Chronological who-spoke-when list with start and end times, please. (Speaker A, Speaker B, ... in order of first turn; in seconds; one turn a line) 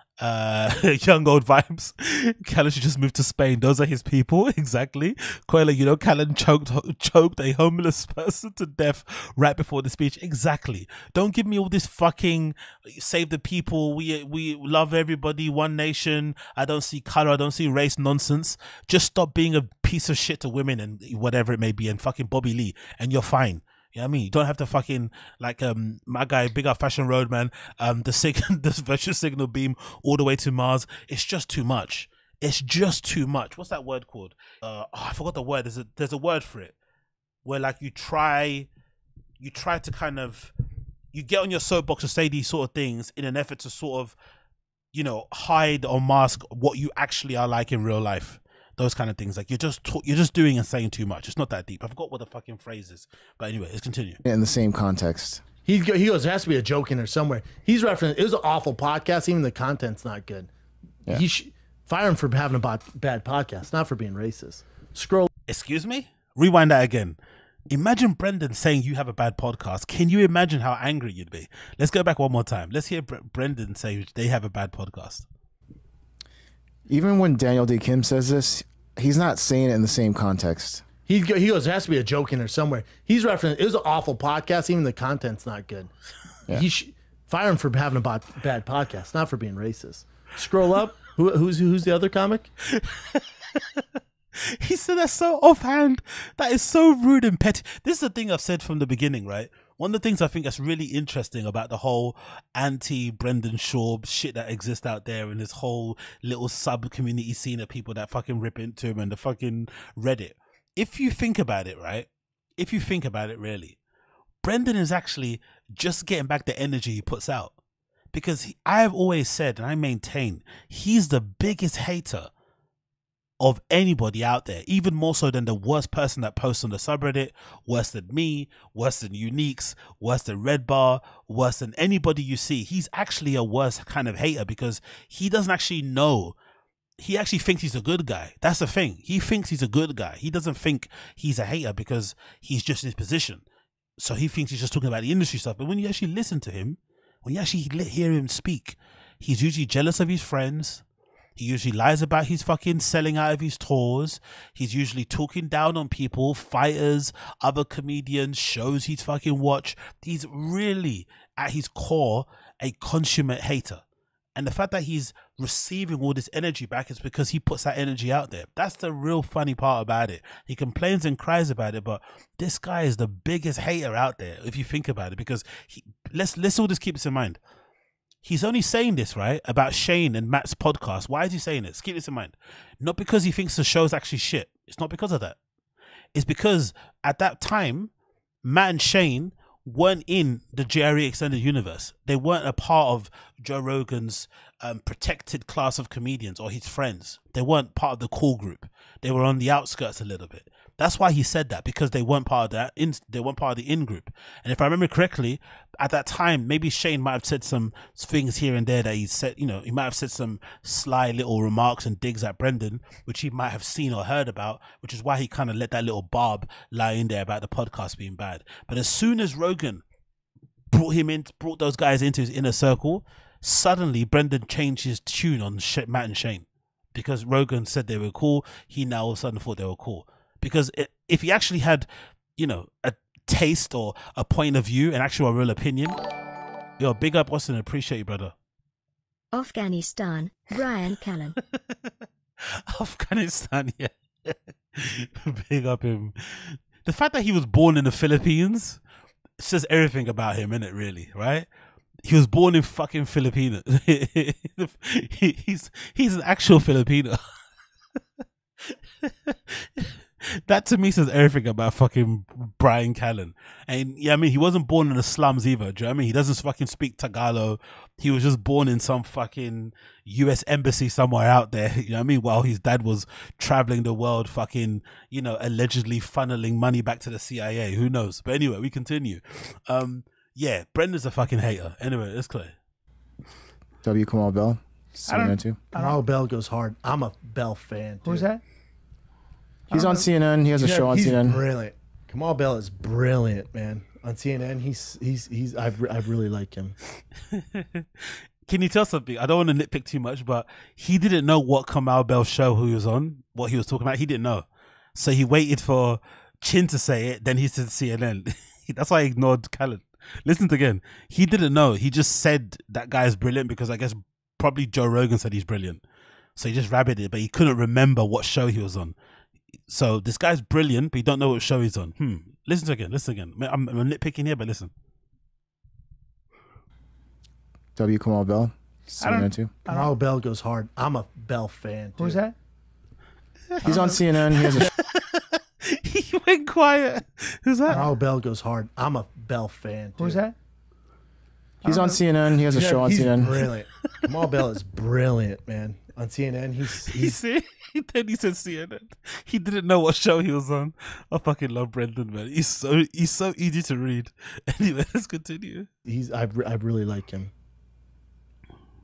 Speaker A: 0.2-36.8
Speaker A: 37.5-38.7
Speaker A: 39.4-40.5
Speaker A: 41.1-44.1
Speaker A: 44.9-54.2
Speaker B: 54.2-55.4
Speaker C: 55.6-60.5
Speaker C: 61.1-65.3
Speaker A: 65.5-67.2
Speaker A: 67.7-75.3
Speaker B: 76.9-80.8
Speaker C: 81.1-85.9
Speaker C: 86.5-92.5
Speaker A: 92.7-93.8
Speaker A: 94.4-112.1
Speaker A: 112.6-113.8
Speaker A: 114.4-117.5
Speaker A: 118.1-122.3
Speaker A: 123.4-136.4
Speaker A: 137.0-143.4
Speaker A: 144.0-150.8
Speaker A: 151.4-163.8
Speaker A: 164.3-177.4
Speaker A: 178.2-185.4
Speaker A: 186.1-187.9
Speaker A: 188.4-219.8
Speaker A: 220.7-236.0
Speaker A: 236.8-238.3
Speaker D: 239.3-241.4
Speaker A: 241.6-241.9
Speaker A: 242.7-248.8
Speaker A: 249.4-251.5
Speaker A: 252.1-257.2
Speaker A: 258.7-282.5
Speaker B: 283.8-285.6
Speaker E: 285.1-286.0
Speaker C: 285.8-288.3
Speaker E: 288.1-288.4
Speaker B: 289.7-291.4
Speaker C: 289.7-290.1
Speaker C: 290.6-296.8
Speaker A: 297.3-315.8
Speaker A: 316.4-318.9
Speaker A: 319.7-324.7
Speaker B: 327.8-329.5
Speaker E: 329.0-329.9
Speaker C: 329.7-332.2
Speaker E: 332.0-332.4
Speaker E: 333.6-334.0
Speaker B: 333.6-334.7
Speaker A: 334.7-337.9
Speaker C: 337.7-340.2
Speaker E: 340.0-340.4
Speaker E: 341.6-342.0
Speaker B: 341.6-343.3
Speaker C: 342.5-347.2
Speaker A: 346.9-355.7
Speaker C: 355.9-357.3